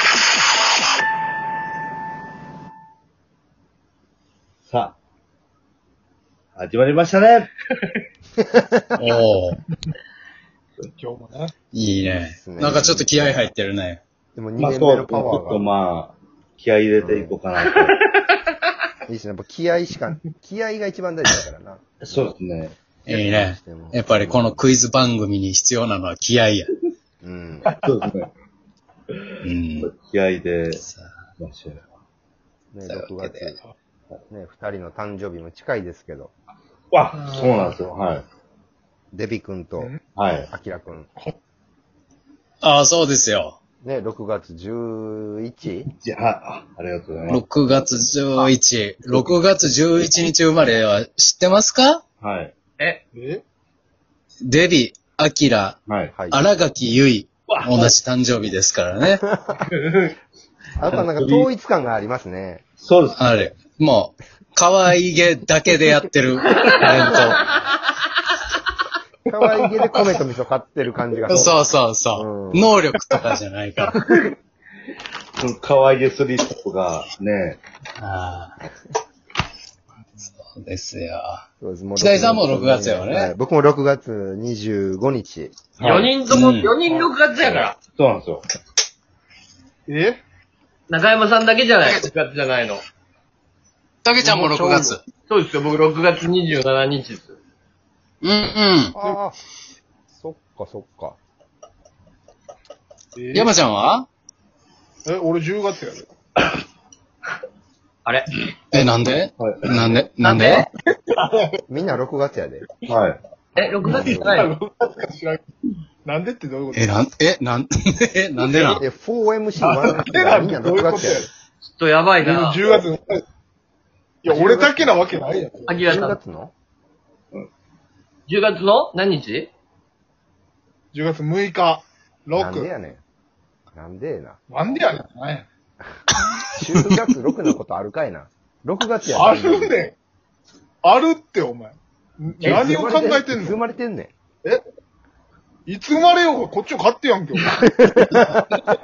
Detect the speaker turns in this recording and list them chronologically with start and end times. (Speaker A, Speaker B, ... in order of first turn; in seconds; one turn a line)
Speaker A: 4.6-5.0
Speaker A: 6.5-7.5
Speaker B: 8.5-8.8
Speaker C: 8.9-9.6
Speaker D: 11.0-11.5
Speaker C: 11.7-14.0
Speaker B: 12.3-13.5
Speaker B: 14.3-15.6
Speaker A: 14.6-18.0
Speaker B: 17.0-17.4
Speaker E: 17.9-18.4
Speaker B: 19.1-22.4
Speaker A: 22.0-22.8
Speaker C: 23.1-26.7
Speaker B: 23.1-24.6
Speaker B: 27.2-27.8
Speaker A: 27.8-28.3
Speaker C: 29.4-29.9
Speaker A: 29.8-30.8
Speaker A: 31.4-31.9
Speaker B: 32.7-33.6
Speaker C: 32.9-33.5
Speaker B: 34.3-36.3
Speaker A: 36.9-38.2
Speaker B: 39.1-39.9
Speaker D: 39.8-40.0
Speaker A: 40.1-40.5
Speaker B: 40.5-41.1
Speaker C: 42.6-43.5
Speaker B: 43.8-45.9
Speaker A: 45.8-47.4
Speaker C: 47.3-52.0
Speaker A: 52.2-52.5
Speaker D: 53.1-53.4
Speaker C: 54.4-59.2
Speaker A: 55.9-56.1
Speaker B: 56.1-56.4
Speaker A: 57.5-57.9
Speaker B: 59.2-59.6
Speaker E: 59.7-60.1
Speaker B: 60.8-62.6
Speaker A: 60.9-61.5
Speaker A: 62.8-63.3
Speaker C: 63.1-67.4
Speaker E: 66.6-67.2
Speaker B: 69.3-71.6
Speaker D: 69.4-70.0
Speaker C: 71.3-74.0
Speaker B: 72.1-72.7
Speaker A: 75.4-77.6
Speaker C: 78.0-78.5
Speaker C: 80.5-81.4
Speaker B: 81.6-85.6
Speaker C: 82.0-83.3
Speaker A: 85.8-86.1
Speaker E: 85.8-87.8
Speaker C: 86.3-86.7
Speaker A: 87.5-88.4
Speaker D: 89.9-90.2
Speaker E: 90.9-92.8
Speaker C: 94.0-95.0
Speaker D: 94.2-95.0
Speaker E: 95.3-97.4
Speaker C: 98.2-98.9
Speaker B: 98.9-99.3
Speaker B: 100.1-101.2
Speaker D: 103.2-103.5
Speaker C: 103.3-104.1
Speaker D: 105.0-106.1
Speaker E: 108.0-108.3
Speaker C: 108.7-110.7
Speaker A: 109.4-109.9
Speaker D: 110.2-111.5
Speaker B: 111.7-112.7
Speaker A: 112.8-113.2
Speaker E: 113.5-114.5
Speaker B: 113.6-114.5
Speaker D: 113.9-115.4
Speaker D: 116.0-116.9
Speaker C: 116.7-118.8
Speaker B: 118.5-121.3
Speaker D: 119.8-121.3
Speaker E: 121.6-122.6
Speaker D: 122.2-123.2
Speaker D: 124.2-125.8
Speaker B: 124.3-125.1
Speaker E: 125.7-126.2
Speaker B: 125.8-126.5
Speaker E: 128.3-129.5
Speaker D: 130.9-132.7
Speaker B: 132.3-133.0
Speaker B: 133.7-134.4
Speaker D: 134.5-135.5
Speaker B: 136.0-139.8
Speaker D: 139.1-139.9
Speaker D: 140.8-143.6
Speaker B: 142.4-144.1
Speaker D: 145.7-147.6
Speaker B: 147.6-148.4